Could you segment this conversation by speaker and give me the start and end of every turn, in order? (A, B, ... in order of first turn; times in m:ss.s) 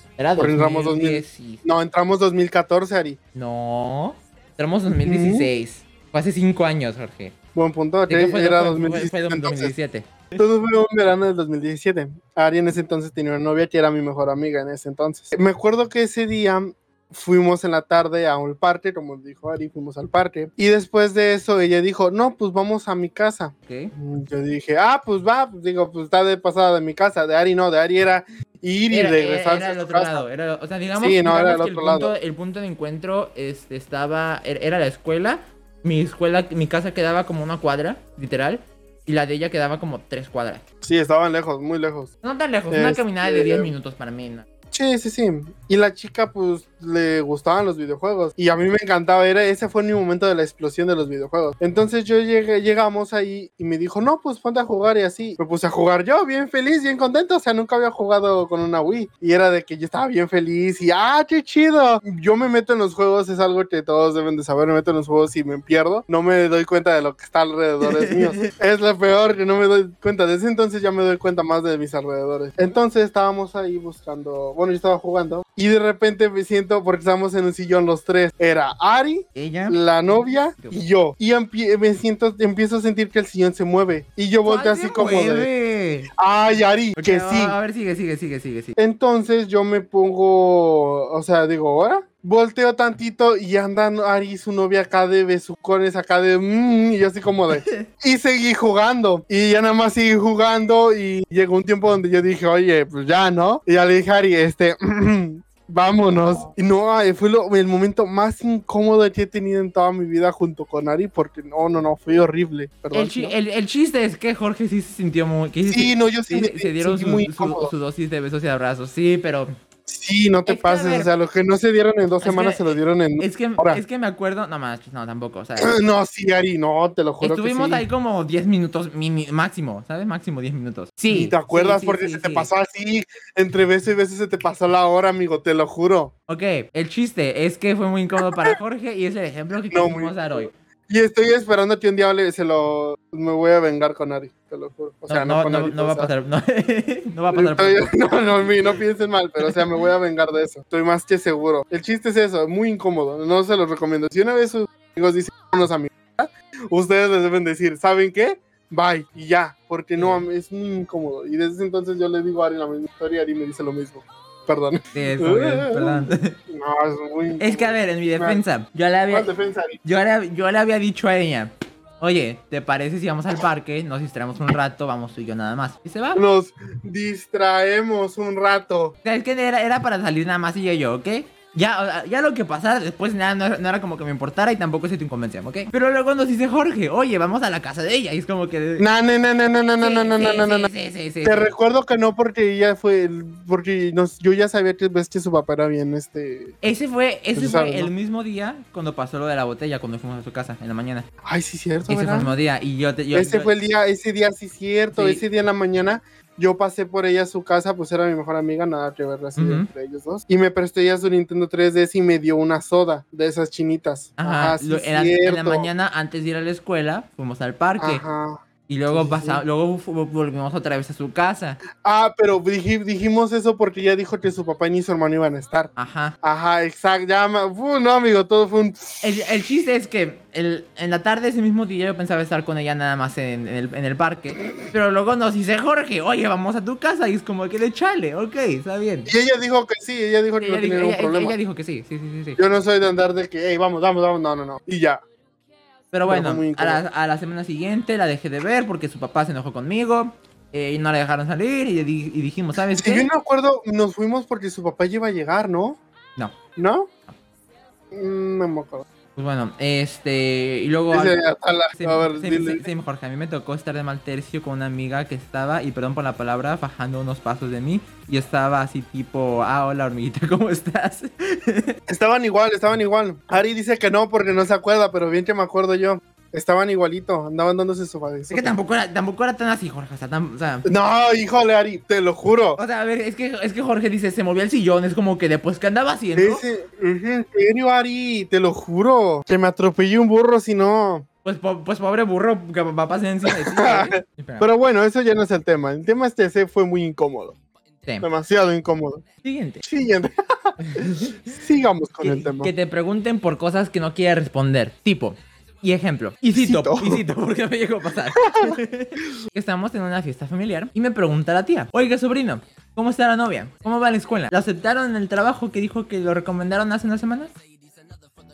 0:00.2-0:01.6 A
0:00.4-0:03.2 B
0:03.3-0:07.3 A
0:05.0-0:05.5 B
0:07.5-0:09.7 B
0:08.1-0:10.2 A
0:10.4-0:30.2 B
0:23.6-0:23.9 A
0:28.9-0:40.6 A
0:31.0-0:32.1 B
0:40.8-0:42.1 B
0:42.2-0:44.4 A
0:42.7-0:43.7 B
0:44.7-1:25.5 B
1:07.8-1:08.5 A
1:19.3-1:19.8 A
1:24.4-1:26.1 A
1:26.2-1:27.6 B
1:27.0-1:28.8 A
1:28.8-1:53.3 B
1:37.5-1:37.9 A
1:52.9-1:59.5 A
1:55.7-1:57.7 B
1:59.9-2:03.8 B
2:00.4-2:01.1 A
2:02.2-2:05.7 A
2:05.6-2:07.8 B
2:07.2-2:12.5 A
2:11.1-2:16.1 B
2:16.3-2:20.5 A
2:19.7-2:26.1 B
2:25.1-2:28.0 A
2:27.3-2:48.4 B
2:40.0-2:40.2 A
2:44.9-2:46.4 A
2:47.4-2:49.3 A
2:49.1-2:49.8 B
2:49.8-2:56.2 A
2:56.1-2:59.0 B
2:59.0-3:08.9 A
3:08.8-3:10.7 B
3:09.8-3:11.5 A
3:11.2-3:16.6 B
3:16.6-3:21.1 A
3:17.3-3:17.9 B
3:21.2-3:22.3 B
3:21.9-3:23.5 A
3:23.1-3:35.7 B
3:24.9-3:25.2 A
3:29.4-3:29.7 A
3:34.2-3:38.0 A
3:37.8-3:39.4 B
3:38.7-3:41.6 A
3:41.8-3:49.1 B
3:45.8-3:46.2 A
3:49.0-3:59.1 A
3:59.1-4:01.4 B
4:00.4-4:02.4 A
4:02.4-4:05.0 B
4:05.9-4:13.1 A
4:06.1-4:06.8 B
4:12.8-4:15.8 B
4:16.6-4:16.9 B
4:17.9-4:18.8 B
4:19.2-4:21.2 A
4:20.9-4:22.7 B
4:21.7-4:31.8 A
4:31.9-4:38.5 B
4:38.3-4:40.6 A
4:40.6-4:42.6 B
4:42.6-4:46.4 A
4:46.2-4:51.0 B
4:51.2-4:54.5 A
4:53.2-4:57.4 B
4:58.0-4:59.0 B
4:59.2-4:59.6 A
4:59.6-5:02.5 B
5:00.6-5:01.2 A
5:02.0-5:17.3 A
5:06.3-5:07.0 B
5:08.1-5:08.6 B